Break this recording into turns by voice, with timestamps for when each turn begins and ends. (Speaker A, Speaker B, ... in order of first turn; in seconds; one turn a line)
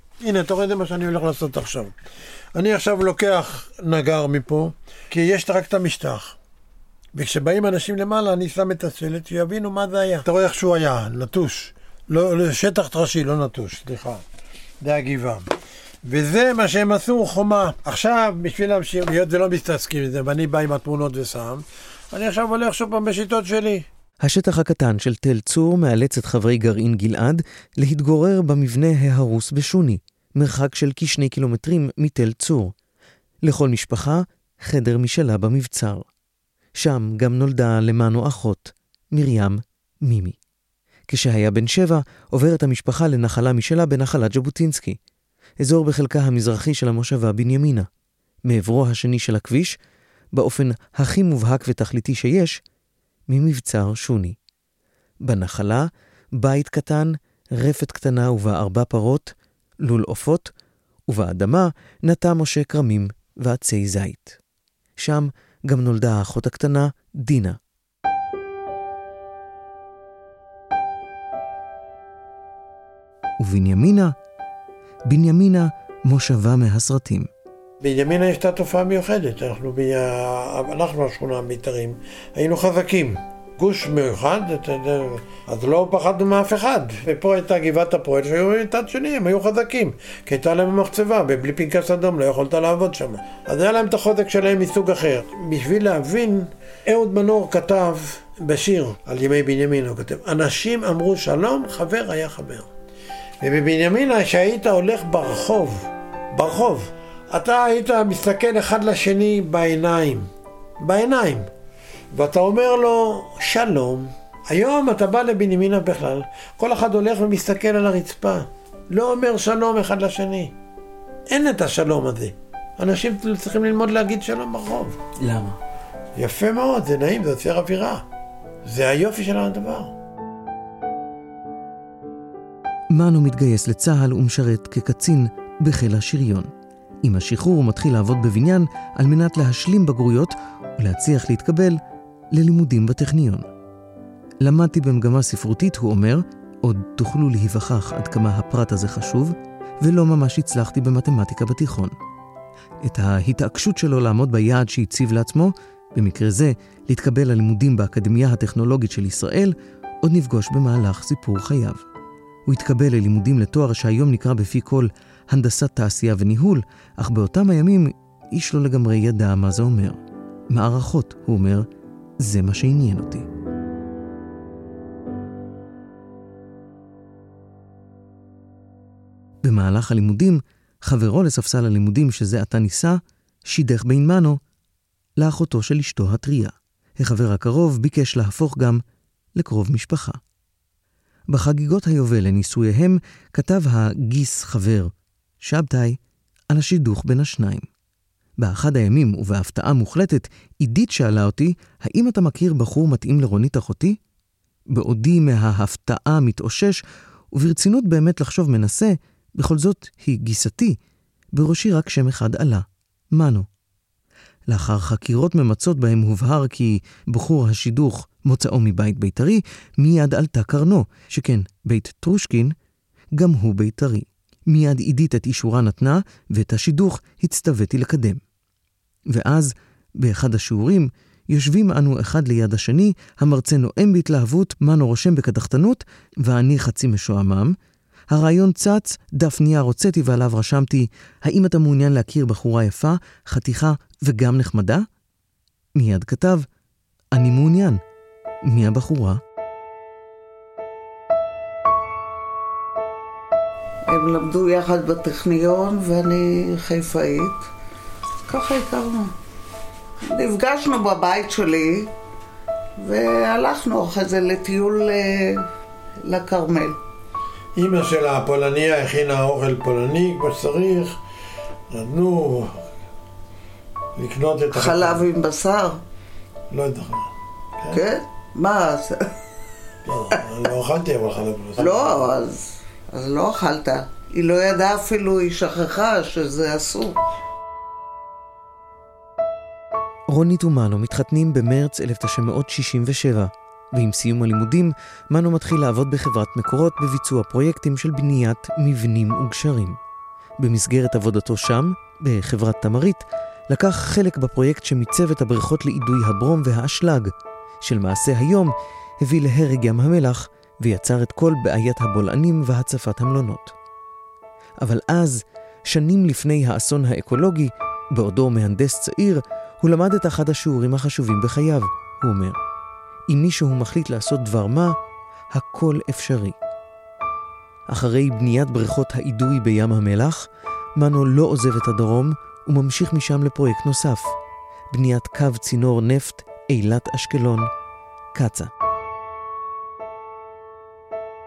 Speaker A: 0.2-1.9
Speaker A: 2.5-6.4
Speaker A: 7.1-14.2
Speaker A: 14.8-15.5
Speaker A: 16.0-23.9
Speaker B: 24.2-32.7
Speaker B: 33.4-36.1
Speaker B: 36.8-40.4
Speaker B: 41.1-45.0
Speaker B: 45.6-47.9
Speaker B: 48.5-49.8
Speaker B: 50.3-52.6
Speaker B: 53.3-54.4
Speaker B: 55.2-60.5
Speaker B: 61.1-64.4
Speaker B: 65.0-67.6
Speaker B: 73.4-74.1
Speaker B: 75.1-77.3
Speaker A: 77.8-102.7
Speaker A: 103.4-110.3
Speaker A: 110.8-111.5
Speaker A: 112.1-120.5
Speaker A: 121.3-125.0
Speaker B: 125.2-125.6
Speaker A: 126.2-128.1
Speaker A: 128.6-129.9
Speaker B: 132.9-136.5
Speaker B: 137.0-141.8
Speaker B: 142.3-143.5
Speaker B: 144.4-151.9
Speaker B: 152.8-161.8
Speaker B: 162.5-170.0
Speaker B: 170.5-171.7
Speaker B: 172.2-173.3
Speaker B: 179.4-184.4
Speaker B: 185.2-188.8
Speaker B: 189.4-190.2
Speaker B: 191.3-196.0
Speaker B: 196.5-197.7
Speaker B: 198.4-204.0
Speaker B: 204.7-206.8
Speaker B: 207.3-210.8
Speaker B: 211.3-213.5
Speaker B: 214.5-222.5
Speaker B: 223.2-228.2
Speaker B: 229.1-237.6
Speaker B: 238.1-244.9
Speaker B: 245.8-246.5
Speaker B: 247.1-247.8
Speaker B: 248.5-249.2
Speaker C: 253.9-257.5
Speaker C: 258.3-259.1
Speaker C: 260.1-261.9
Speaker C: 262.8-265.5
Speaker C: 266.1-266.8
Speaker A: 267.6-271.0
Speaker A: 271.7-272.6
Speaker A: 274.0-275.0
Speaker C: 274.5-275.8
Speaker A: 276.5-277.9
Speaker C: 277.7-279.1
Speaker A: 279.9-282.1
Speaker C: 281.6-287.0
Speaker B: 290.1-299.8
Speaker B: 300.4-313.5
Speaker B: 314.6-322.4
Speaker B: 323.1-324.8
Speaker B: 325.3-326.4
Speaker B: 327.7-334.1
Speaker B: 334.7-337.5
Speaker B: 338.1-338.5